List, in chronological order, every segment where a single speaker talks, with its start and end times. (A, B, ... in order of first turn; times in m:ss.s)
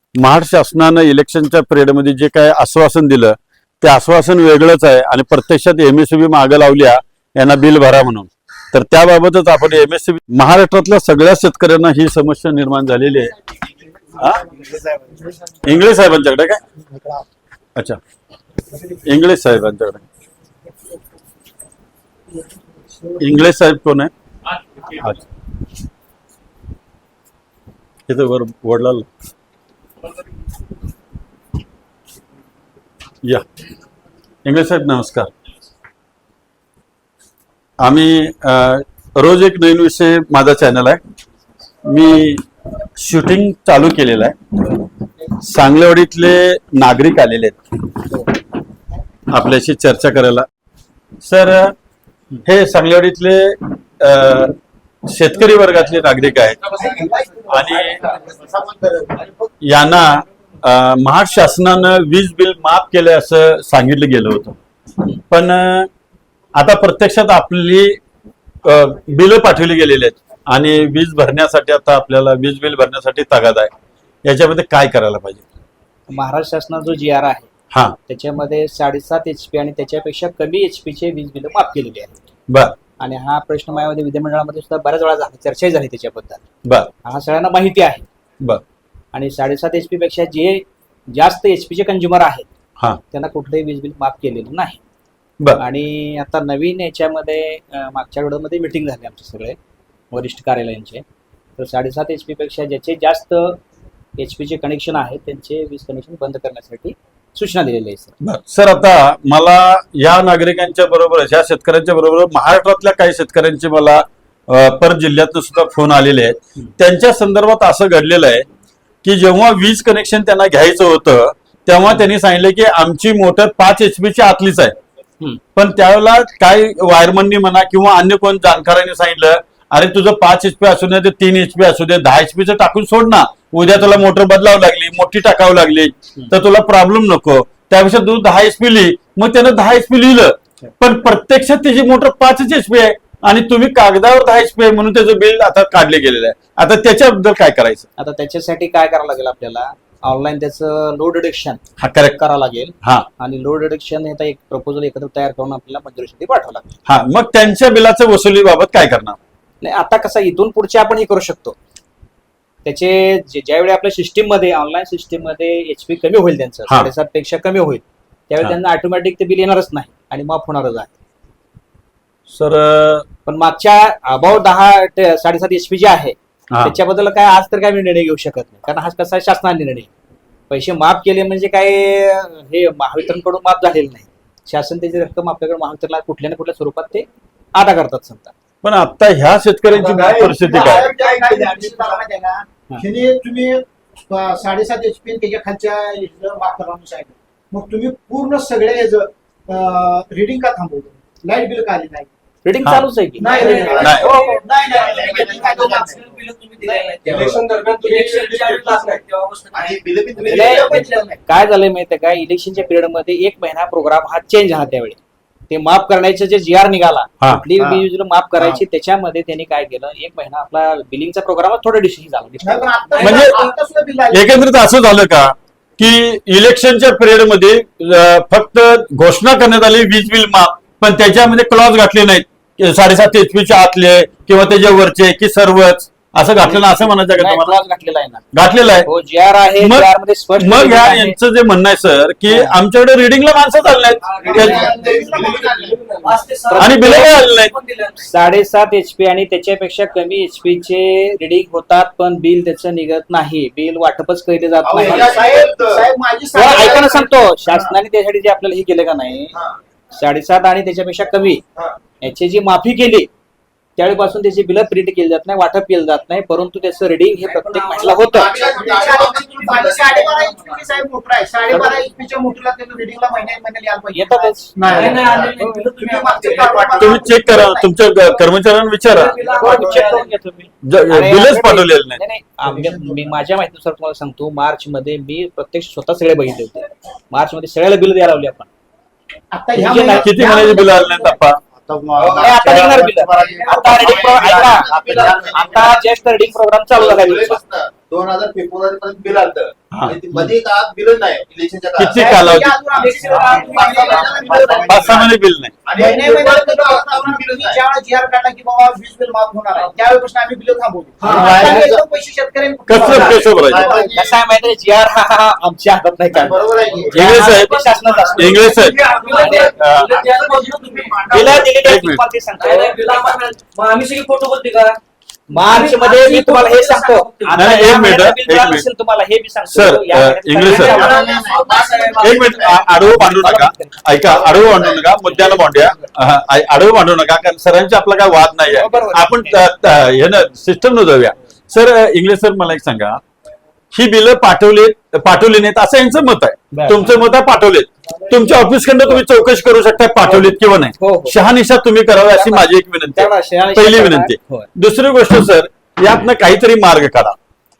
0:00.2-0:13.3 A
0:14.2-0:15.8 B
0:15.6-0:16.6 A
0:16.8-0:17.2 B
0:19.0-0:20.0 A
0:22.8-0:23.2 B
0:23.2-0:24.1 A
0:24.8-0:25.2 A
0:28.1-0:29.1 A
0:34.4-0:35.3 A
0:37.8-0:41.0 A
0:41.8-0:42.4 A
0:43.0-0:44.4 A
0:45.4-0:47.6 A
0:49.3-0:50.4 A
0:51.2-0:51.7 A
0:52.4-0:54.5 A
0:55.1-0:56.7 A
0:56.7-0:57.1 C
0:56.7-0:59.2 B
0:57.5-0:58.0 A
0:57.8-0:58.3 C
0:59.6-1:04.6 A
1:05.3-1:05.9 A
1:06.5-1:08.0 A
1:08.6-1:13.7 A
1:14.2-1:15.4 A
1:16.1-1:17.5 D
1:18.1-1:22.2 D
1:22.5-1:22.8 A
1:23.0-1:26.4 D
1:27.0-1:28.0 D
1:29.1-1:32.4 D
1:33.1-1:34.8 D
1:35.6-1:39.6 D
1:40.1-1:41.0 D
1:41.6-1:43.6 D
1:44.2-1:48.2 D
1:48.2-1:58.4 A
1:59.0-2:04.7 A
2:05.6-2:27.9 A
2:28.0-2:31.6 D
2:31.8-2:32.2 A
2:32.1-2:36.7 D
2:36.9-2:39.2 A
2:39.6-2:41.6 D
2:42.6-2:50.9 D
2:52.3-2:53.0 A
2:53.2-2:59.9 D
3:00.5-3:08.3 D
3:08.6-3:10.9 A
3:09.7-3:22.1 B
3:09.9-3:12.0 C
3:22.4-3:24.4 D
3:23.2-3:26.0 B
3:23.2-3:29.8 E
3:23.5-3:24.2 C
3:23.8-3:24.1 A
3:24.7-3:25.9 C
3:26.6-3:27.0 D
3:27.0-3:28.8 C
3:29.5-3:31.1 C
3:30.2-3:35.0 D
3:30.6-3:31.0 B
3:35.5-3:43.2 D
3:37.6-3:37.8 B
3:42.4-3:44.4 B
3:43.0-3:43.4 A
3:44.1-3:57.6 A
3:56.4-3:58.2 D
3:58.3-3:58.9 A
3:58.8-4:01.2 D
3:59.6-4:04.7 A
4:02.3-4:02.6 D
4:04.0-4:04.8 E
4:04.2-4:05.8 B
4:04.3-4:06.2 C
4:06.0-4:08.1 E
4:06.5-4:07.5 A
4:06.7-4:07.0 D
4:08.0-4:15.3 D
4:14.6-4:15.9 C
4:14.8-4:17.7 B
4:16.3-4:19.3 D
4:19.9-4:21.4 D
4:22.0-4:23.1 D
4:23.8-4:28.4 D
4:27.3-4:30.5 E
4:27.8-4:30.2 C
4:28.4-4:37.7 B
4:33.9-4:35.5 D
4:34.7-4:37.0 E
4:36.8-4:39.2 A
4:38.8-4:40.1 E
4:39.2-4:48.5 D
4:40.6-4:42.0 A
4:42.4-4:43.1 B
4:49.3-4:51.2 B
4:49.5-4:50.1 D
4:50.0-4:51.4 A
4:51.6-4:55.9 C
4:52.0-4:54.4 B
4:52.2-4:57.4 D
4:55.0-4:55.5 B
4:56.7-5:02.0 C
4:59.7-5:00.3 A
5:01.8-5:02.6 A
5:01.9-5:05.1 B
5:02.7-5:04.6 E
5:03.0-5:05.1 C
5:04.6-5:05.6 A
5:05.6-5:07.6 C
5:05.7-5:14.1 B
5:11.0-5:11.6 E
5:11.0-5:11.8 D
5:11.1-5:11.8 C
5:12.7-5:13.6 A
5:12.8-5:14.1 C
5:12.8-5:13.3 D
5:13.9-5:19.5 D
5:16.1-5:17.2 C
5:16.9-5:18.8 A
5:17.0-5:21.4 E
5:17.8-5:21.3 C
5:19.5-5:19.9 A
5:21.1-5:23.2 D
5:21.4-5:22.0 A
5:22.4-5:24.8 E
5:25.3-5:31.1 D
5:25.4-5:27.7 E
5:27.3-5:28.6 A
5:29.5-5:31.0 A
5:30.5-5:32.6 E
5:30.8-5:32.6 C
5:31.9-5:43.0 A
5:32.7-5:33.8 D
5:34.0-5:35.2 C
5:34.4-5:35.5 D
5:38.5-5:39.4 D
5:43.7-5:57.2 A
5:46.5-5:47.0 D
5:50.8-5:51.2 D
5:52.0-5:54.5 D